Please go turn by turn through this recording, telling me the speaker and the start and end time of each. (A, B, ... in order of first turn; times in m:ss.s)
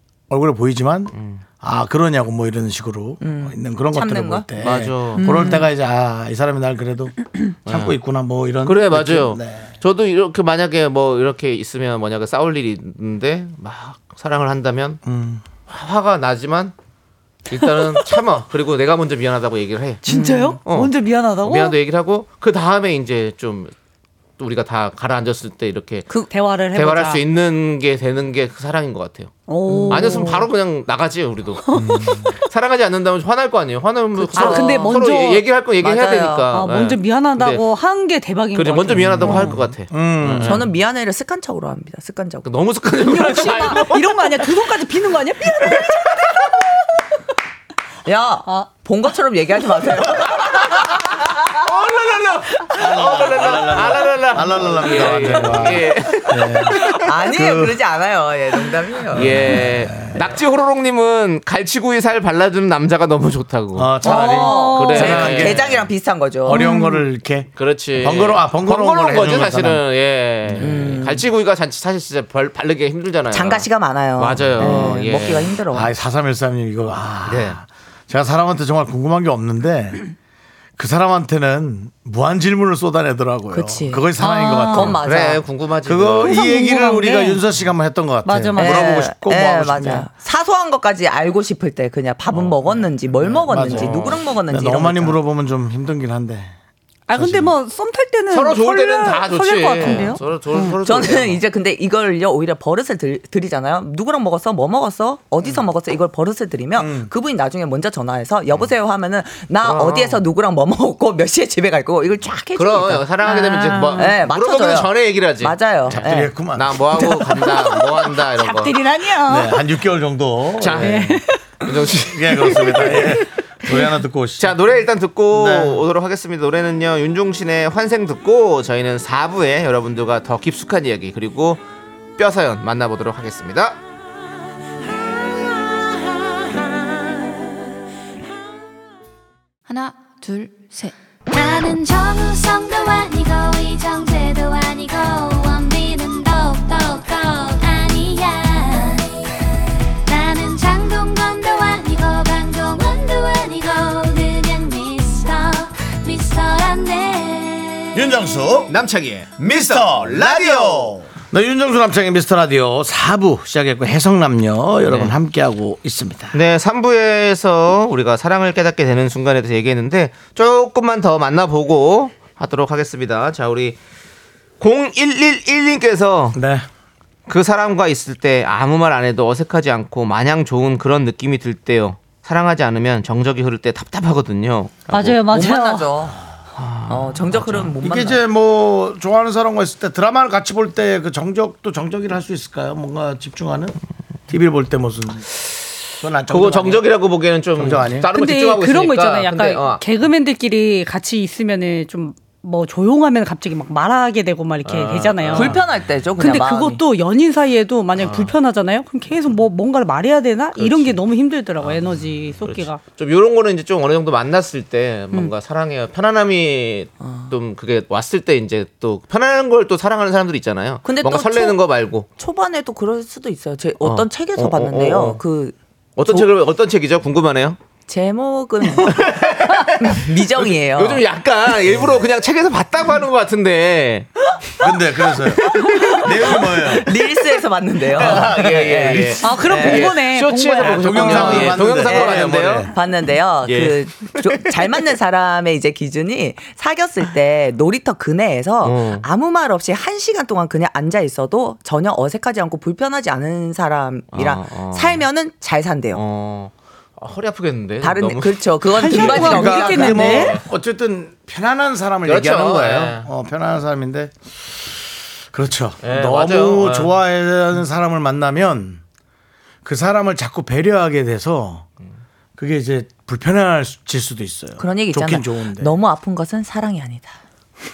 0:00.3-0:09.7 A
0:01.1-0:01.4 B
0:03.2-0:04.7 C
0:04.6-0:05.2 B
0:05.2-0:05.6 D
0:05.2-0:05.7 C
0:07.6-0:07.9 B
0:08.6-0:15.0 B
0:15.0-0:15.4 A
0:15.7-0:16.7 B
0:17.5-0:20.0 B
0:17.6-0:17.9 D
0:20.0-0:21.8 D
0:20.1-0:20.6 C
0:20.6-0:23.7 B
0:24.4-0:26.1 B
0:26.3-0:27.2 D
0:26.7-0:29.3 B
0:29.5-0:30.5 D
0:29.7-0:30.1 C
0:29.9-0:31.6 B
0:31.6-0:32.2 D
0:31.7-0:32.3 A
0:32.4-0:37.6 B
0:34.3-0:35.0 C
0:34.3-0:35.5 D
0:35.8-0:36.5 C
0:36.5-0:39.6 D
0:38.5-0:40.6 B
0:39.0-0:40.6 A
0:40.4-0:42.5 C
0:42.4-0:44.2 B
0:43.0-0:46.3 D
0:45.6-0:45.9 B
0:48.0-0:50.9 C
0:50.5-0:50.9 B
0:51.6-0:57.0 B
0:52.7-0:57.8 A
0:57.0-0:59.4 C
0:59.1-1:00.3 A
0:59.1-1:05.7 B
1:03.7-1:05.9 A
1:04.0-1:06.9 C
1:04.0-1:05.3 D
1:06.4-1:09.8 A
1:06.5-1:07.0 D
1:07.6-1:15.5 B
1:10.4-1:11.0 A
1:10.6-1:11.3 C
1:13.3-1:15.9 C
1:14.5-1:14.9 A
1:15.7-1:20.1 A
1:17.3-1:17.6 B
1:20.8-1:25.0 A
1:23.5-1:25.4 C
1:24.2-1:25.0 D
1:24.7-1:26.4 B
1:25.8-1:30.1 A
1:26.2-1:27.4 D
1:28.2-1:29.0 D
1:28.6-1:35.2 C
1:32.3-1:36.5 A
1:33.6-1:34.1 B
1:37.1-1:40.8 D
1:37.1-1:37.5 A
1:38.3-1:41.4 B
1:40.8-1:53.1 C
1:46.8-1:47.1 A
1:49.6-1:50.2 B
1:52.5-1:58.8 B
1:53.2-1:54.2 D
1:53.9-1:56.4 C
1:55.9-1:56.8 A
1:57.0-1:59.6 D
1:59.2-2:01.2 A
2:00.6-2:03.2 B
2:00.8-2:01.7 D
2:02.0-2:04.6 A
2:02.4-2:02.9 D
2:04.4-2:11.6 B
2:05.3-2:05.8 A
2:12.2-2:13.8 B
2:19.7-2:29.1 E
2:30.0-2:38.0 E
2:37.9-2:38.7 A
2:38.7-2:41.0 B
2:39.4-2:46.4 A
2:44.8-2:45.1 B
2:46.3-2:53.8 B
2:54.6-2:56.4 B
2:56.3-2:56.6 A
2:57.3-3:05.2 B
3:04.9-3:05.9 D
3:05.3-3:06.2 C
3:06.6-3:07.7 B
3:06.9-3:08.2 C
3:07.8-3:13.8 A
3:14.3-3:15.3 A
3:16.0-3:16.9 A
3:16.3-3:19.8 B
3:17.6-3:18.1 A
3:18.1-3:25.6 D
3:24.6-3:25.6 B
3:25.3-3:26.8 C
3:26.2-3:32.8 D
3:28.0-3:28.3 B
3:30.6-3:31.0 B
3:31.6-3:42.1 B
3:37.0-3:37.3 C
3:40.8-3:41.6 C
3:42.2-3:46.3 C
3:43.8-3:45.2 B
3:46.0-3:47.6 B
3:47.9-3:51.0 C
3:48.8-3:54.1 B
3:54.6-3:57.0 A
3:55.6-4:00.0 C
3:55.7-3:56.0 D
3:56.0-3:56.4 B
3:57.9-4:02.7 B
3:59.2-4:01.6 D
4:00.6-4:02.7 A
4:01.7-4:16.0 C
4:03.4-4:04.5 B
4:08.6-4:09.0 B
4:14.1-4:15.0 B
4:15.9-4:20.4 B
4:17.8-4:20.2 C
4:18.8-4:20.4 D
4:19.0-4:28.8 A
4:22.0-4:23.1 B
4:25.8-4:26.9 B
4:29.6-4:31.7 A
4:32.4-4:35.7 A
4:34.6-4:37.2 C